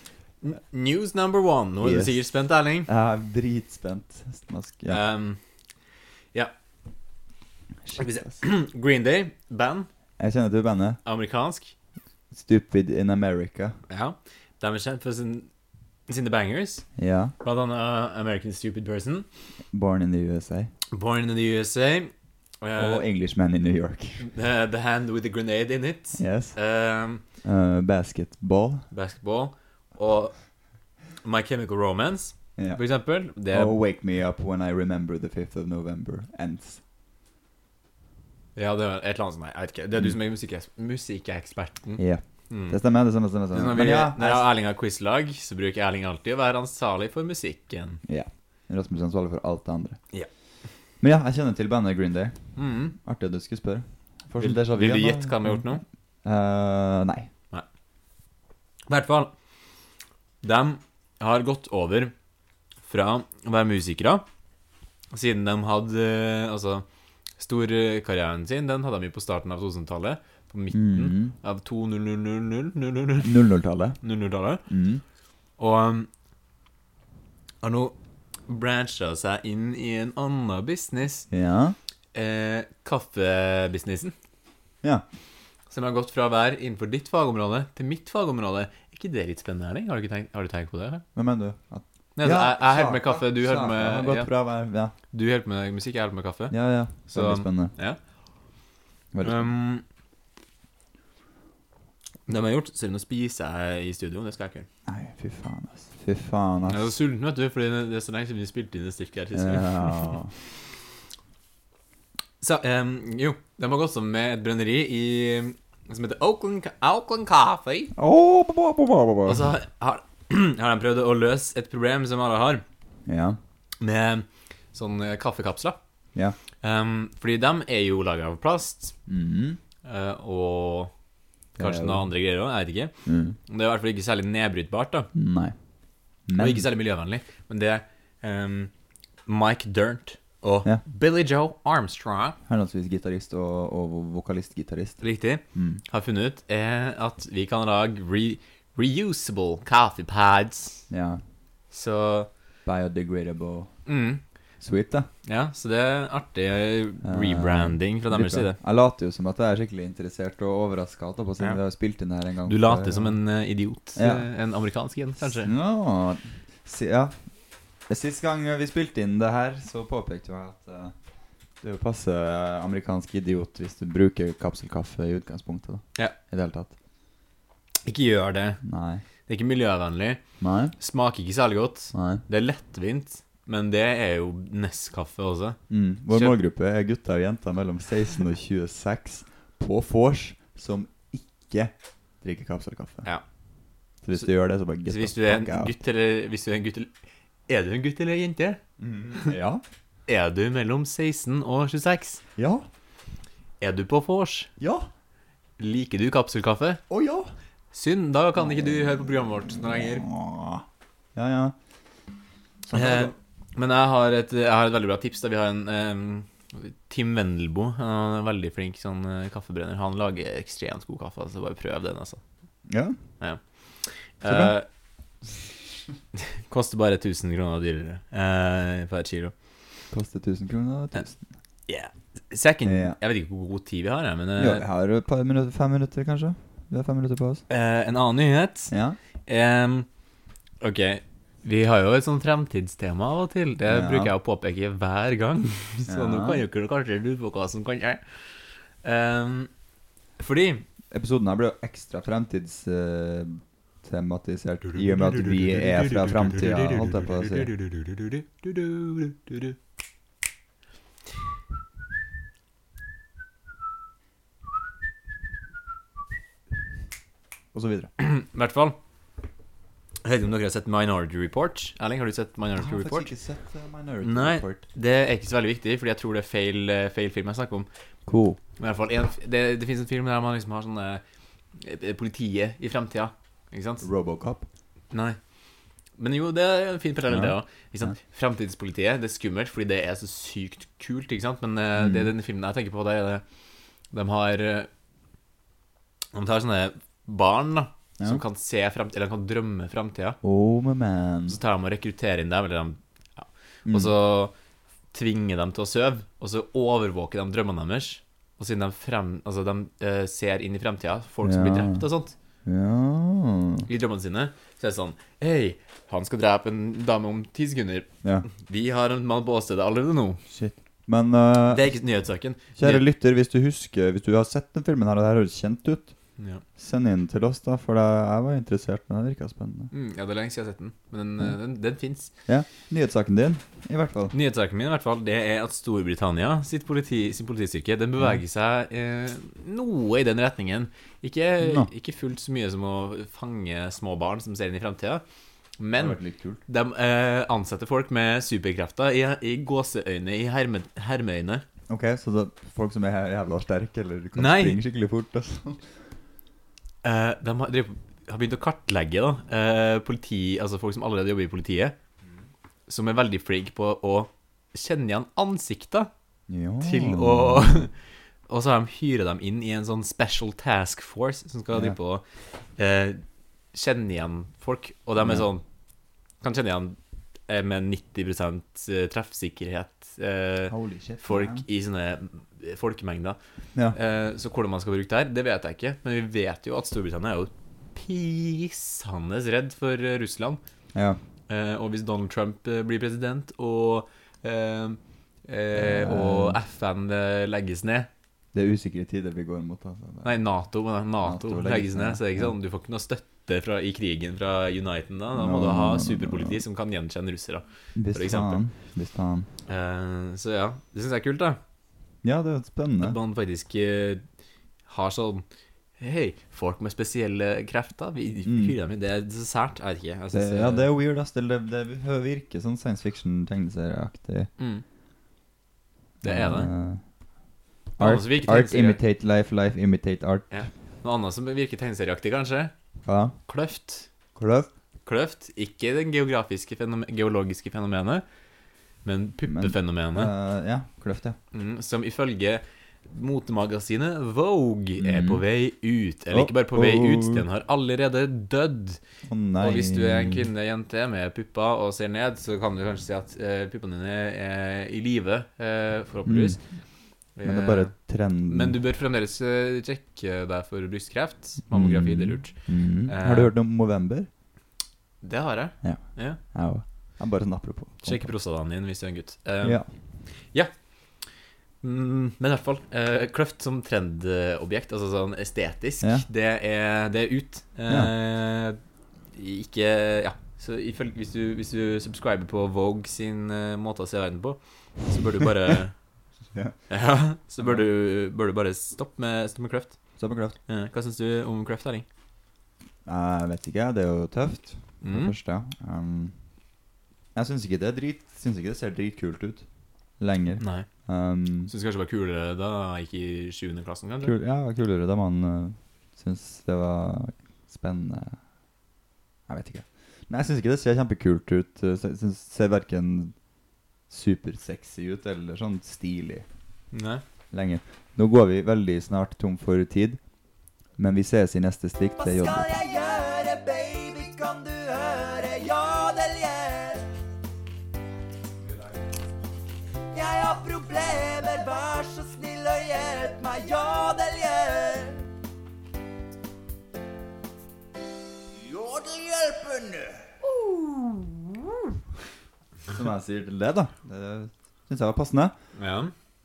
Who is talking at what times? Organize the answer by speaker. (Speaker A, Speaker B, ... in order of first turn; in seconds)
Speaker A: 0.4-2.9, 4.9-5.4, 8.0-9.9, 11.1-11.7, 13.9-15.5, 16.1-16.9, 17.4-19.2, 20.9-23.1, 24.2-27.2, 28.9-30.5, 31.2-33.8, 38.6-42.8, 43.5-48.0, 52.6-53.0, 54.4-55.8, 58.9-59.3, 60.4-62.1, 62.9-64.2, 65.1-66.8, 67.4-73.4, 74.0-74.6, 75.6-76.1, 77.6-77.9, 78.5-81.3, 82.1-84.1, 85.7-91.0, 92.2-94.3, 95.1-98.0, 99.2-99.8, 102.3-104.7, 106.7-110.2, 112.4-117.9, 119.2-122.6, 123.8-125.8, 126.6-128.9, 129.8-130.9, 131.6-132.9, 133.5-135.1, 136.4-138.7, 139.2-142.4, 145.0-150.9, 151.7-152.3, 153.9-154.2, 155.2-158.6, 162.5-165.5, 177.8-178.6, 179.3-180.2, 180.8-185.6, 186.1-186.4, 194.9-196.9, 197.5-199.3, 200.1-202.2, 203.6-204.5, 205.6-206.8, 207.7-210.1, 212.7-222.2, 223.2-224.7, 226.2-229.3, 231.7-234.6, 237.5-238.7, 239.3-239.9, 240.6-248.0, 248.8-249.5, 250.2-250.6, 254.9-259.6, 268.0-268.8, 270.0-273.1, 274.0-277.7, 278.6-281.0, 281.6-283.9, 284.9-285.2, 286.0-293.2, 293.9-294.7, 296.1-300.2, 301.3-304.3, 304.9-312.1, 313.7-320.2, 321.5-322.9, 326.2-326.4, 329.7-332.1, 334.1-345.0, 345.6-351.4, 354.1-354.6, 356.8-361.8, 362.7-365.9, 366.6-367.7, 368.3-372.0, 372.6-373.0, 373.5-375.4, 376.2-376.8, 377.3-383.2, 383.7-390.4, 391.3-397.9, 400.0-408.4, 409.5-411.4, 412.8-414.0, 414.7-415.2, 415.8-420.7, 424.4-424.6, 426.0-426.5, 427.8-428.8, 430.3-432.5, 433.3-433.9, 434.9-438.0, 438.8-440.1, 441.3-448.8, 449.4-456.4, 457.1-457.7, 458.3-463.3, 465.0-466.2, 467.8-469.6, 470.2-470.5, 471.6-478.6, 479.1-485.8, 486.7-489.8, 490.5-491.9, 494.8-495.1, 500.4-500.7, 501.5-504.1, 516.7-517.0, 545.5-545.9
Speaker B: 1.8-2.2, 2.9-5.0, 7.9-8.4, 10.2-11.0, 12.3-13.8, 17.0-17.3, 19.7-20.7, 22.8-24.2, 26.2-26.6, 27.4-28.9, 32.6-32.8, 33.5-36.8, 42.0-44.5, 48.1-50.0, 51.0-55.7, 56.2-57.3, 70.7-71.3, 73.2-74.0, 74.7-75.0, 81.3-81.8, 91.1-94.9, 96.5-97.7, 99.1-99.5, 104.9-106.9, 109.3-110.3, 118.0-119.5, 123.1-123.4, 129.1-129.6, 131.6-132.1, 133.1-133.4, 135.1-135.5, 136.3-136.6, 142.5-145.0, 145.5-145.8, 150.9-151.2, 152.6-153.7, 154.6-155.1, 157.0-163.2, 164.0-164.2, 165.2-167.2, 167.9-170.9, 171.6-176.7, 178.6-179.0, 180.4-180.7, 181.9-182.2, 185.7-193.1, 194.0-195.7, 198.8-199.6, 202.4-202.6, 204.6-204.9, 206.9-207.3, 208.4-211.5, 212.7-213.1, 222.7-223.0, 224.2-224.5, 229.9-231.2, 232.6-233.0, 234.4-237.4, 238.7-239.0, 243.7-244.1, 245.9-246.4, 250.9-257.5, 267.5-267.9, 272.6-274.6, 278.1-278.4, 283.8-284.5, 287.1-287.9, 291.8-292.1, 300.2-301.4, 303.6-303.9, 311.2-311.8, 312.4-313.7, 320.3-321.6, 322.6-325.9, 326.6-329.7, 332.3-334.1, 341.4-341.7, 345.8-346.4, 351.7-355.6, 366.3-367.7, 375.0-375.3, 380.5-381.4, 390.7-391.0, 395.5-396.4, 398.3-400.2, 401.0-402.4, 405.1-406.4, 407.8-409.3, 412.0-413.0, 418.2-418.6, 420.1-424.3, 426.0-426.8, 427.8-430.4, 432.9-433.1, 434.1-434.5, 439.2-441.2, 444.8-445.2, 446.1-447.2, 449.1-450.3, 456.0-456.4, 457.2-458.6, 461.5-464.1, 465.6-468.1, 475.8-476.1, 490.0-490.4, 492.9-496.1, 497.1-499.4, 500.0-501.5, 504.0-508.2, 509.3-513.1, 513.9-516.2, 517.3-520.0, 520.8-522.5, 542.7-545.3
Speaker C: 522.0-526.9, 529.9-535.0, 538.4-541.4